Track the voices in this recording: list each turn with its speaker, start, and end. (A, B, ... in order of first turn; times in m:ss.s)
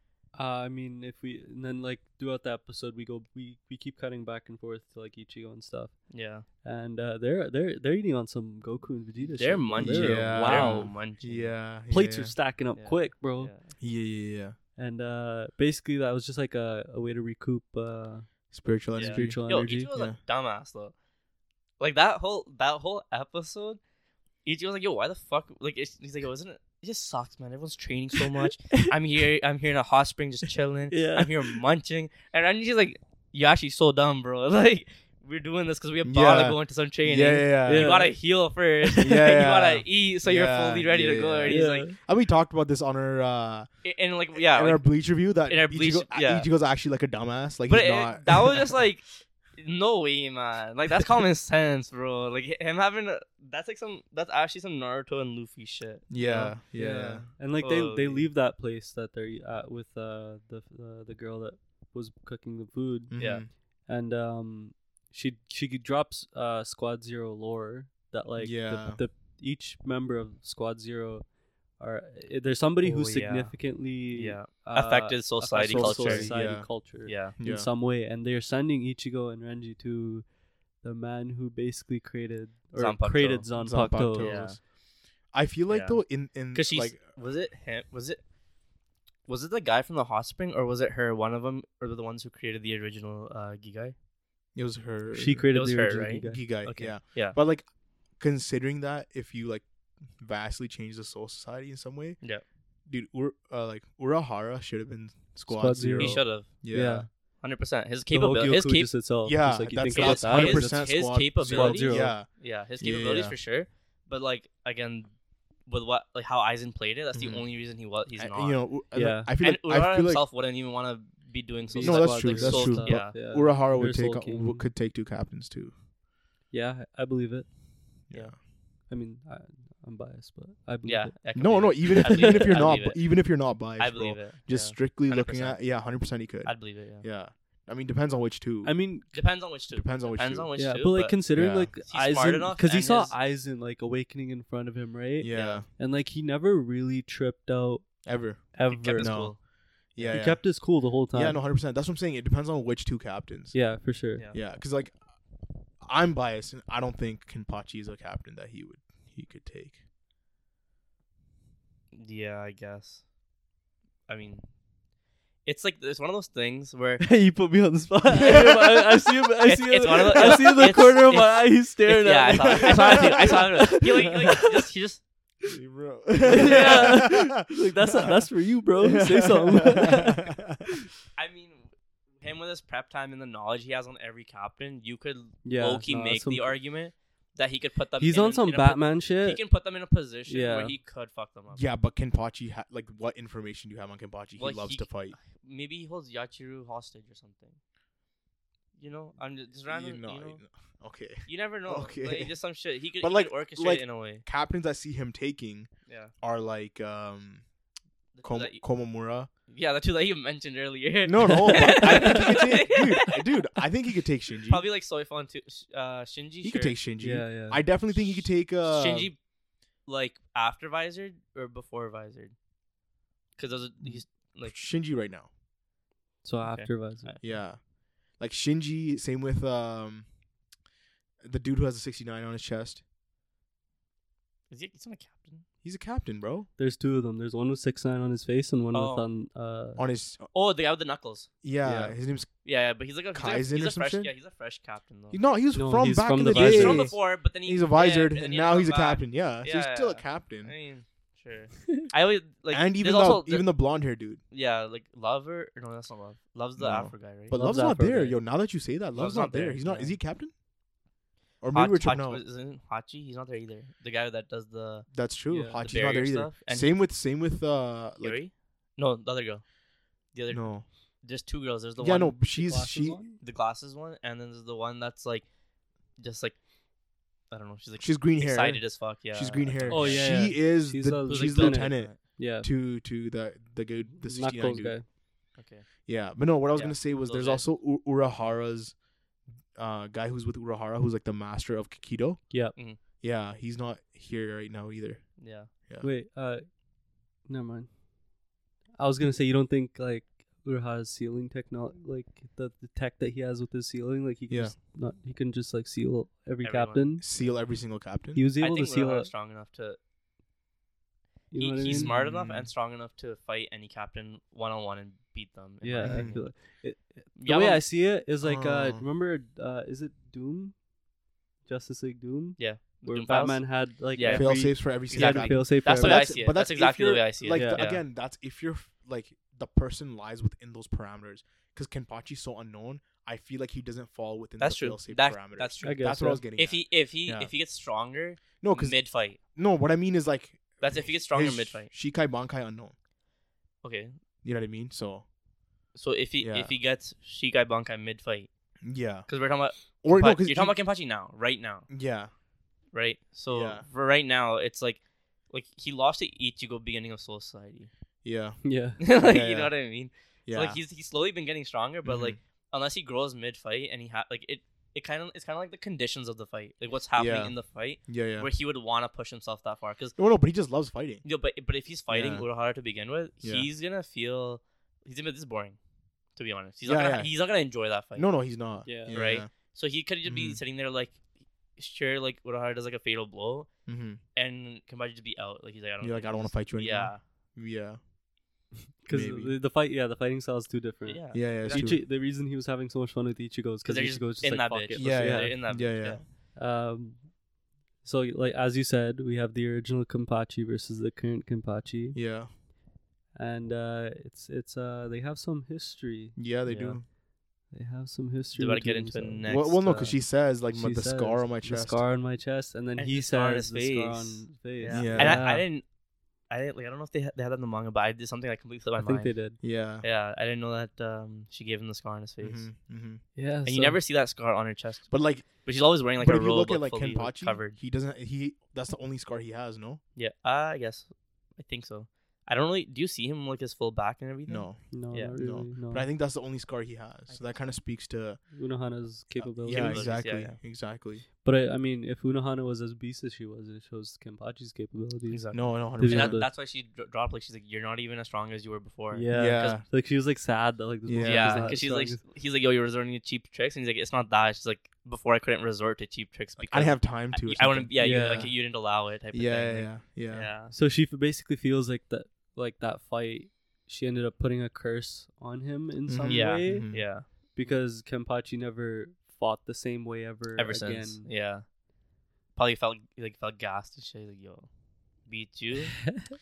0:00.4-0:10.9 A
0:06.1-0:06.4 B
0:09.2-0:11.6 B
0:09.8-0:12.4 C
0:11.9-0:13.5 A
0:12.7-0:13.7 B
0:13.8-0:14.6 C
0:14.8-0:18.3 A
0:18.5-0:20.2 C
0:19.0-0:20.9 B
0:19.0-0:19.9 A
0:21.8-0:23.8 B
0:24.4-0:41.9 B
0:30.9-0:31.6 A
0:36.0-0:38.0 C
0:37.6-0:38.1 A
0:39.0-0:43.7 C
0:41.5-0:42.0 A
0:43.8-0:44.8 B
0:44.3-0:48.8 C
0:45.5-0:46.5 B
0:47.7-0:56.1 B
0:56.1-0:57.2 C
0:56.2-1:20.3 A
0:57.6-0:58.3 B
1:03.1-1:03.5 C
1:03.2-1:03.4 B
1:08.4-1:09.0 C
1:12.8-1:16.4 B
1:15.6-1:16.8 C
1:17.0-1:17.4 B
1:17.3-1:17.7 C
1:20.8-1:24.4 A
1:22.8-1:23.5 B
1:23.6-1:24.7 C
1:24.1-1:24.6 B
1:25.3-1:27.0 C
1:25.7-1:28.2 B
1:29.2-1:33.9 B
1:34.5-1:35.6 C
1:35.1-1:36.4 A
1:35.5-1:37.4 B
1:36.2-1:42.2 C
1:42.9-1:47.1 C
1:45.5-1:47.1 A
1:46.0-1:46.5 B
1:47.4-1:48.9 B
1:48.1-1:50.9 A
1:49.2-1:52.3 C
1:49.9-1:55.1 B
1:51.4-1:52.1 A
1:52.8-1:53.4 C
1:55.6-1:58.6 B
1:57.1-1:57.4 C
1:58.2-2:00.2 C
1:58.9-1:59.3 A
1:59.4-2:03.2 B
2:01.7-2:04.7 A
2:01.8-2:05.7 C
2:06.5-2:07.5 A
2:08.1-2:08.4 C
2:08.9-2:11.2 A
2:10.8-2:13.0 B
2:11.3-2:18.8 C
2:11.9-2:12.6 A
2:13.8-2:15.7 B
2:16.4-2:17.1 B
2:18.6-2:19.1 A
2:19.1-2:23.2 B
2:19.7-2:20.5 C
2:20.6-2:27.8 A
2:21.3-2:21.7 C
2:25.2-2:25.6 C
2:25.3-2:25.6 B
2:28.0-2:29.4 C
2:28.5-2:29.3 A
2:28.7-2:29.4 B
2:30.0-2:30.2 B
2:30.0-2:33.6 C
2:30.1-2:31.4 A
2:33.5-2:34.2 A
2:34.3-2:35.0 C
2:35.8-2:39.8 C
2:41.9-2:43.0 B
2:44.1-2:44.4 B
2:45.4-2:47.0 B
2:47.0-2:54.6 A
2:48.1-2:48.8 C
2:49.4-2:55.0 B
2:52.3-2:53.4 C
2:55.4-2:58.2 C
2:56.2-3:00.2 A
2:56.3-2:57.0 B
2:58.8-3:00.6 C
3:01.2-3:11.6 B
3:05.4-3:06.6 A
3:08.0-3:09.4 A
3:10.3-3:10.7 A
3:11.5-3:15.2 C
3:14.4-3:17.6 B
3:18.8-3:20.4 B
3:19.7-3:22.4 C
3:21.2-3:24.2 B
3:23.0-3:25.7 C
3:25.9-3:26.1 B
3:26.2-3:27.4 C
3:28.1-3:28.6 B
3:28.2-3:29.3 C
3:29.5-3:33.2 B
3:31.0-3:34.6 C
3:31.4-3:32.0 A
3:34.5-3:36.8 B
3:36.4-3:39.1 C
3:37.0-3:37.6 A
3:37.9-3:39.2 B
3:39.8-3:42.3 B
3:43.4-3:44.6 B
3:43.8-3:45.3 C
3:46.2-3:47.1 A
3:46.4-3:47.4 B
3:47.2-3:47.6 C
3:48.2-3:50.1 C
3:51.2-3:52.8 C
3:54.5-3:55.4 B
3:55.6-3:56.5 C
3:56.6-3:59.8 A
3:58.7-3:59.1 B
3:59.8-4:00.3 C
4:00.3-4:01.3 B
4:01.4-4:02.3 C
4:01.6-4:01.9 A
4:02.4-4:05.2 B
4:03.1-4:04.1 C
4:05.1-4:10.5 C
4:05.5-4:06.9 A
4:06.3-4:13.5 B
4:12.5-4:14.2 C
4:14.3-4:17.4 B
4:16.6-4:20.3 C
4:17.3-4:18.2 A
4:18.9-4:20.0 B
4:21.4-4:22.2 C
4:21.5-4:24.9 B
4:24.9-4:28.2 C
4:25.3-4:25.6 A
4:25.6-4:26.8 B
4:28.0-4:29.4 B
4:30.1-4:32.2 B
4:30.3-4:30.6 C
4:31.8-4:33.0 C
4:32.3-4:33.2 A
4:33.2-4:35.3 B
4:35.9-4:36.4 B
4:37.3-4:40.3 B
4:37.8-4:44.8 C
4:39.7-4:42.5 A
4:41.0-4:42.0 B
4:44.0-4:44.8 A
4:45.3-4:45.7 B
4:45.8-4:48.8 C
4:46.5-4:47.4 B
4:49.5-4:52.3 C
4:52.3-4:52.6 A
4:52.9-4:55.9 C
4:55.2-4:55.5 B
4:55.8-4:56.6 A
4:57.2-4:57.8 A
4:58.8-5:07.0 A
5:04.3-5:04.5 C
5:06.4-5:07.4 B
5:07.0-5:08.2 C
5:08.1-5:09.1 A
5:08.4-5:09.8 B
5:11.3-5:11.9 A
5:11.4-5:16.3 B
5:11.7-5:12.5 C
5:15.6-5:20.6 A
5:15.8-5:16.2 C
5:17.2-5:17.6 B
5:18.2-5:18.8 C
5:21.4-5:26.2 A
5:22.4-5:27.8 B
5:24.0-5:37.3 C
5:27.3-5:27.7 A
5:34.4-5:39.2 B
5:35.6-5:36.2 A
5:38.4-5:42.7 C
5:40.6-5:41.7 B
5:43.6-5:44.0 B
5:44.2-5:45.1 C
5:45.7-5:48.3 B
5:46.2-5:46.5 C
5:48.6-5:49.1 C
5:49.1-5:51.7 B
5:49.8-5:50.6 C
5:51.7-5:52.1 C
5:52.7-5:57.7 B
5:53.3-5:53.6 C
5:58.0-5:59.5 C
5:58.4-5:58.8 A
5:58.8-6:10.0 B
6:00.2-6:00.6 C
6:01.8-6:02.2 C
6:07.0-6:08.3 C
6:10.0-6:11.0 C
6:11.0-6:15.6 B
6:11.9-6:12.3 C
6:13.2-6:13.5 C
6:16.2-6:18.1 B
6:16.6-6:17.2 C
6:17.9-6:19.3 C
6:18.6-6:19.0 A
6:18.9-6:21.0 B
6:20.0-6:20.4 C
6:21.6-6:23.5 B
6:23.6-6:24.0 C
6:24.1-6:27.0 B
6:25.8-6:27.8 C
6:28.8-6:35.4 A
6:28.9-6:29.4 C
6:30.8-6:31.7 B
6:31.1-6:31.8 C
6:33.6-6:36.0 B
6:34.8-6:36.0 C
6:36.3-6:37.1 A
6:37.8-6:42.0 A
6:41.9-6:42.3 C
6:43.1-6:46.8 A
6:46.2-6:46.8 C
6:46.5-6:46.8 B
6:47.5-6:49.3 A
6:48.3-6:50.0 B
6:49.3-6:51.8 C
6:50.5-6:55.4 A
6:52.8-6:55.7 B
6:54.7-6:55.2 C
6:56.3-7:02.5 B
6:58.8-6:59.4 A
6:59.4-6:59.8 C
7:02.2-7:03.0 C
7:03.2-7:03.8 A
7:03.4-7:07.6 B
7:04.9-7:09.8 C
7:10.0-7:15.2 B
7:14.3-7:18.2 C
7:14.7-7:15.9 A
7:17.1-7:17.6 B
7:18.3-7:19.9 A
7:19.2-7:21.0 C
7:19.5-7:20.4 B
7:21.2-7:26.3 A
7:25.1-7:29.6 B
7:25.3-7:26.2 C
7:28.9-7:32.0 A
7:29.1-7:29.6 C
7:30.8-7:31.6 C
7:31.0-7:40.5 B
7:36.4-7:38.4 C
7:37.8-7:38.3 A
7:39.1-7:40.3 C
7:40.5-7:51.1 A
7:45.8-7:46.9 C
7:46.1-7:47.6 B
7:50.4-7:51.5 B
7:52.3-7:54.5 B
7:55.0-7:55.8 B